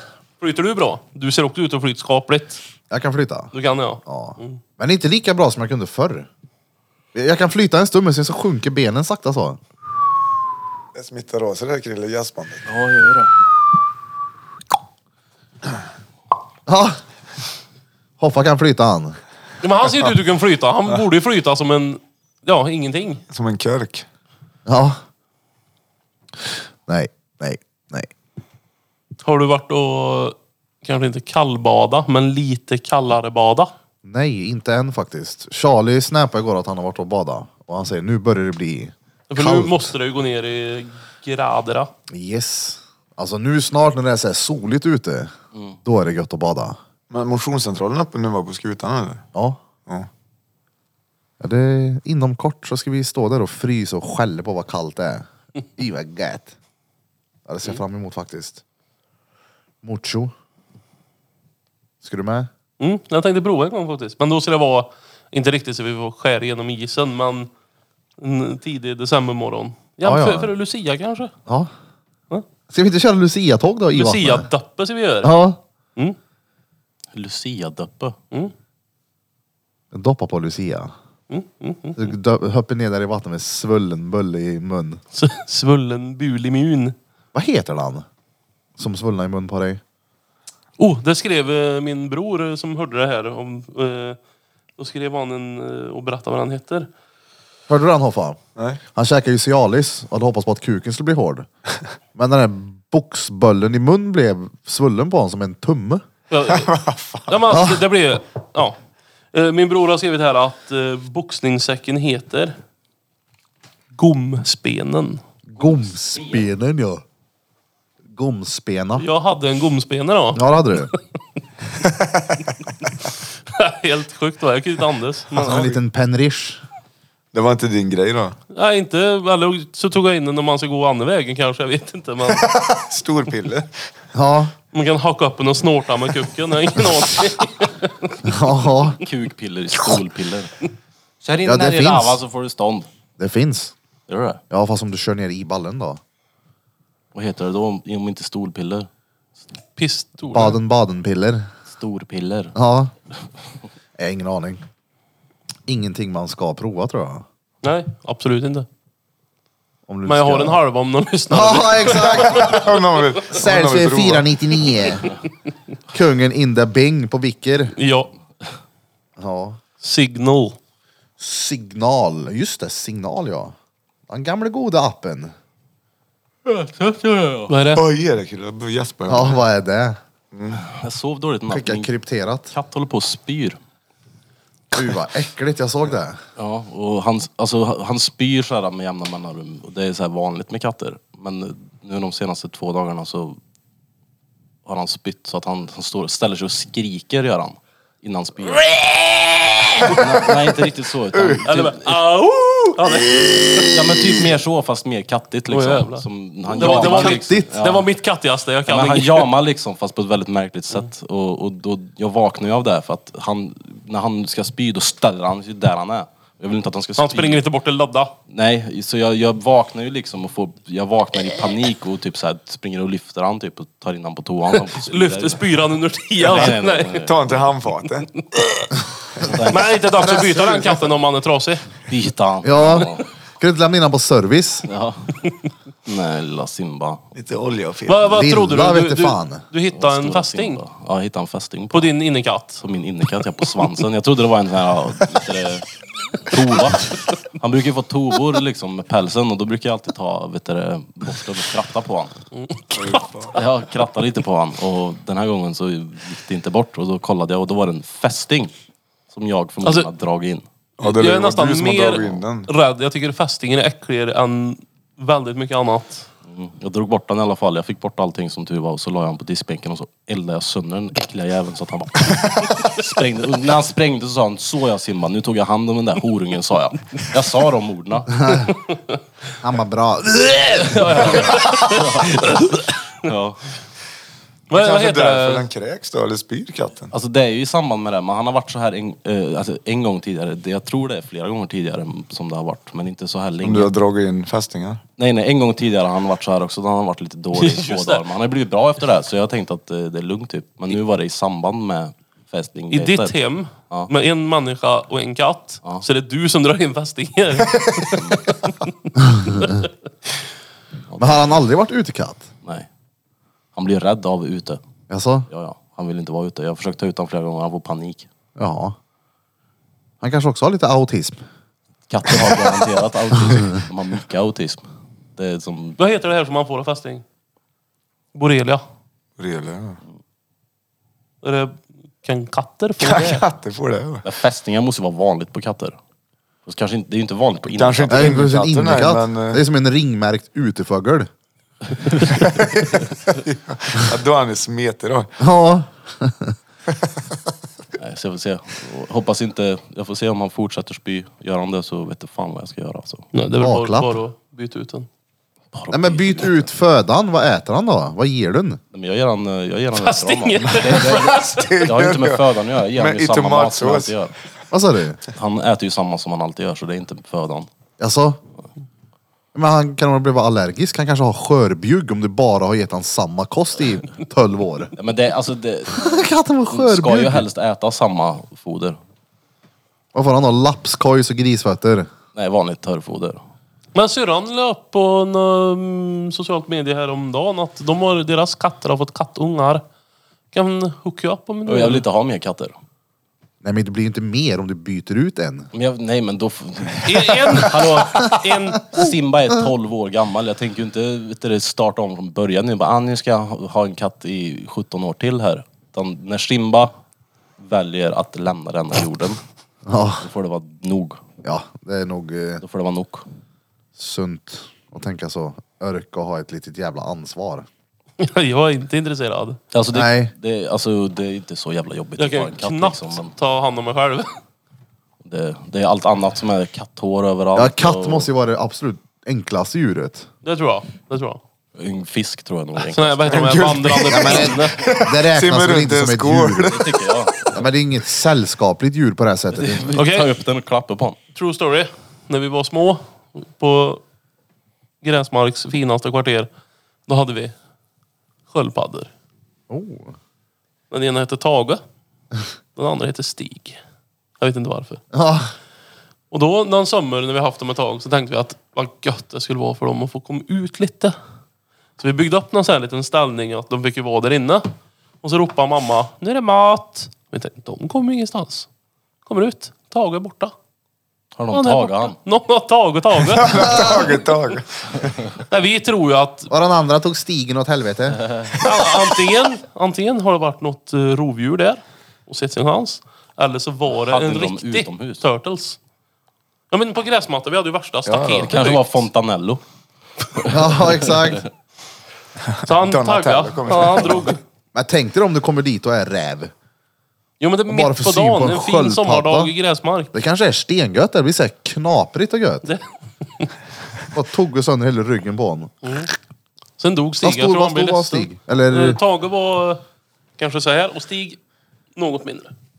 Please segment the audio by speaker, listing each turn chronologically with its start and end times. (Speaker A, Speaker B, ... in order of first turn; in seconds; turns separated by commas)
Speaker A: 0.4-2.6, Speaker B: 2.9-3.5, Speaker A: 3.5-4.6, Speaker B: 4.1-6.3, Speaker B: 7.1-9.6, Speaker C: 10.9-12.7, Speaker D: 12.7-13.3, Speaker B: 16.7-17.0, Speaker B: 18.2-19.2, Speaker A: 19.6-23.2, Speaker C: 23.3-24.1, Speaker B: 24.7-25.0, Speaker B: 26.4-28.1, Speaker A: 29.2-33.7, Speaker B: 34.0-39.9, Speaker A: 39.3-41.9, Speaker B: 42.1-45.3, Speaker B: 45.9-46.8, Speaker C: 47.1-49.2, Speaker B: 51.4-56.5, Speaker B: 57.5-58.6, Speaker B: 59.8-60.3, Speaker B: 62.0-62.5, Speaker A: 62.8-67.5, Speaker A: 68.2-71.3, Speaker B: 70.0-70.5, Speaker B: 72.7-74.5, Speaker A: 73.9-75.4, Speaker B: 75.2-75.6, Speaker D: 77.1-78.2, Speaker B: 79.9-80.9, Speaker A: 81.3-82.0, Speaker B: 82.0-85.0, Speaker A: 85.1-87.0, Speaker B: 87.3-88.0, Speaker B: 88.8-89.8, Speaker A: 90.8-94.2, Speaker A: 94.8-96.9, Speaker B: 97.7-98.4, Speaker B: 99.0-101.5, Speaker B: 102.2-106.0, Speaker A: 106.3-106.7, Speaker C: 106.5-107.4, Speaker A: 107.3-108.8, Speaker B: 107.5-107.8, Speaker A: 109.3-112.5, Speaker A: 114.0-115.2, Speaker B: 115.5-117.0, Speaker D: 115.6-116.4, Speaker B: 118.1-119.1, Speaker A: 119.0-121.0, Speaker B: 120.3-120.9, Speaker C: 121.8-122.3, Speaker A: 123.5-125.8, Speaker B: 125.4-126.6, Speaker C: 127.3-128.4, Speaker A: 128.5-132.4, Speaker C: 132.3-133.7, Speaker B: 134.1-134.5, Speaker A: 134.7-138.2, Speaker B: 138.2-139.0, Speaker D: 139.0-140.6, Speaker D: 141.2-142.9, Speaker B: 141.4-142.2, Speaker B: 143.2-143.7, Speaker D: 144.1-144.4, Speaker B: 144.5-146.0, Speaker D: 147.1-148.9, Speaker A: 149.8-150.6, Speaker B: 150.3-151.5, Speaker D: 151.7-152.5, Speaker B: 152.6-152.9, Speaker B: 154.0-154.6, Speaker B: 155.7-157.2, Speaker A: 157.6-158.7, Speaker B: 159.9-160.6, Speaker A: 160.1-162.6, Speaker B: 161.3-162.6, Speaker C: 162.0-164.3, Speaker B: 163.3-165.1, Speaker B: 165.9-167.8, Speaker A: 167.8-168.1, Speaker B: 169.2-169.6, Speaker A: 169.8-170.6, Speaker B: 171.2-173.6, Speaker B: 174.1-175.3, Speaker D: 176.4-177.5, Speaker A: 177.5-177.8, Speaker C: 177.8-179.4, Speaker B: 179.1-180.0, Speaker C: 180.3-180.6, Speaker D: 180.6-181.9, Speaker B: 181.5-182.5, Speaker D: 182.5-183.6, Speaker B: 184.7-186.2, Speaker D: 186.4-193.4, Speaker D: 194.7-198.7, Speaker D: 199.8-202.0, Speaker C: 201.2-201.4, Speaker A: 201.5-203.7, Speaker D: 203.6-207.9, Speaker A: 205.5-209.3, Speaker B: 206.6-207.5, Speaker D: 208.7-217.4, Speaker A: 217.0-218.2, Speaker D: 218.3-225.4, Speaker A: 224.7-227.0, Speaker D: 226.2-227.4, Speaker C: 227.0-228.1, Speaker A: 228.3-228.7, Speaker D: 229.2-229.7, Speaker A: 229.5-231.7, Speaker D: 231.9-233.1, Speaker B: 232.4-234.7, Speaker D: 234.7-235.1, Speaker D: 235.9-237.0, Speaker C: 237.2-238.1, Speaker A: 237.9-240.6, Speaker B: 238.1-239.4, Speaker D: 239.7-241.9, Speaker A: 241.7-242.6, Speaker D: 242.6-245.7, Speaker D: 246.2-252.2, Speaker A: 252.3-253.1, Speaker C: 252.7-253.3, Speaker D: 253.3-258.5, Speaker D: 259.1-260.5, Speaker A: 259.6-259.9, Speaker C: 260.8-262.5, Speaker A: 260.8-266.1, Speaker D: 266.3-278.2, Speaker B: 278.2-278.5, Speaker B: 279.4-281.0, Speaker D: 280.7-283.4, Speaker A: 280.8-282.5, Speaker A: 284.5-285.5, Speaker C: 284.5-286.9, Speaker D: 286.9-293.7, Speaker C: 293.4-294.8, Speaker D: 295.0-303.1, Speaker A: 297.3-298.0, Speaker A: 302.7-308.0, Speaker D: 308.0-308.2, Speaker B: 309.0-309.6, Speaker A: 309.3-309.6, Speaker B: 311.0-312.3, Speaker D: 313.6-314.6, Speaker B: 314.9-315.3, Speaker D: 315.3-318.1, Speaker B: 318.4-318.8, Speaker B: 320.0-321.2, Speaker D: 321.9-325.8, Speaker A: 325.8-327.0, Speaker A: 328.1-328.6, Speaker C: 329.2-329.8, Speaker A: 331.2-333.2, Speaker C: 332.8-334.1, Speaker D: 334.0-335.8, Speaker D: 336.5-338.1, Speaker C: 337.5-339.4, Speaker B: 337.9-341.1, Speaker C: 342.0-345.2, Speaker B: 345.2-346.4, Speaker D: 347.8-353.1, Speaker A: 353.1-354.9, Speaker B: 353.4-354.0, Speaker D: 355.5-356.5, Speaker B: 355.7-358.6, Speaker D: 358.7-364.1, Speaker A: 359.8-361.6, Speaker C: 360.5-364.0, Speaker B: 364.5-365.0, Speaker D: 365.1-367.5, Speaker B: 367.8-368.2, Speaker B: 369.3-374.7, Speaker D: 374.8-378.8, Speaker B: 375.7-377.3, Speaker B: 379.9-381.9, Speaker D: 382.1-383.2, Speaker A: 383.8-389.6, Speaker A: 390.3-391.8, Speaker D: 391.5-392.6, Speaker B: 393.4-395.5, Speaker D: 395.5-406.7, Speaker A: 396.9-398.7, Speaker D: 407.4-409.2, Speaker B: 409.7-410.1, Speaker D: 410.0-411.0, Speaker B: 411.2-412.4, Speaker D: 412.4-413.1, Speaker B: 413.8-417.5, Speaker A: 418.0-419.4, Speaker D: 419.5-423.1, Speaker B: 419.7-420.1, Speaker A: 422.0-424.1, Speaker D: 425.0-428.1, Speaker B: 427.4-430.1, Speaker A: 430.2-431.2, Speaker D: 431.6-433.2, Speaker A: 432.7-434.6, Speaker C: 433.1-436.8, Speaker B: 433.9-436.6, Speaker D: 436.5-437.4, Speaker B: 437.3-439.8, Speaker D: 439.4-441.0, Speaker A: 439.8-440.1, Speaker A: 441.1-443.8, Speaker A: 444.8-446.3, Speaker A: 446.9-447.4, Speaker A: 448.3-448.9, Speaker B: 449.5-449.9, Speaker A: 450.7-451.6, Speaker A: 452.6-453.6, Speaker A: 454.2-454.8, Speaker B: 454.9-455.3, Speaker A: 456.1-460.9, Speaker A: 461.8-464.5, Speaker A: 465.0-468.5, Speaker A: 469.1-470.3, Speaker D: 471.2-472.0, Speaker A: 471.3-473.7, Speaker C: 473.2-475.1, Speaker B: 473.5-473.8, Speaker A: 475.3-476.3, Speaker B: 476.3-478.1, Speaker A: 478.4-485.6, Speaker D: 483.8-485.0, Speaker A: 486.5-488.8, Speaker C: 487.9-488.3, Speaker D: 488.3-489.4, Speaker D: 490.2-491.3, Speaker B: 490.3-491.2, Speaker A: 492.4-494.2, Speaker C: 492.5-494.2, Speaker B: 494.5-496.3, Speaker A: 497.2-499.9, Speaker B: 497.5-499.3, Speaker B: 499.9-502.4, Speaker B: 503.9-505.5, Speaker A: 505.6-505.9, Speaker A: 506.6-509.6, Speaker B: 507.0-508.8, Speaker A: 510.2-511.2, Speaker A: 511.8-512.3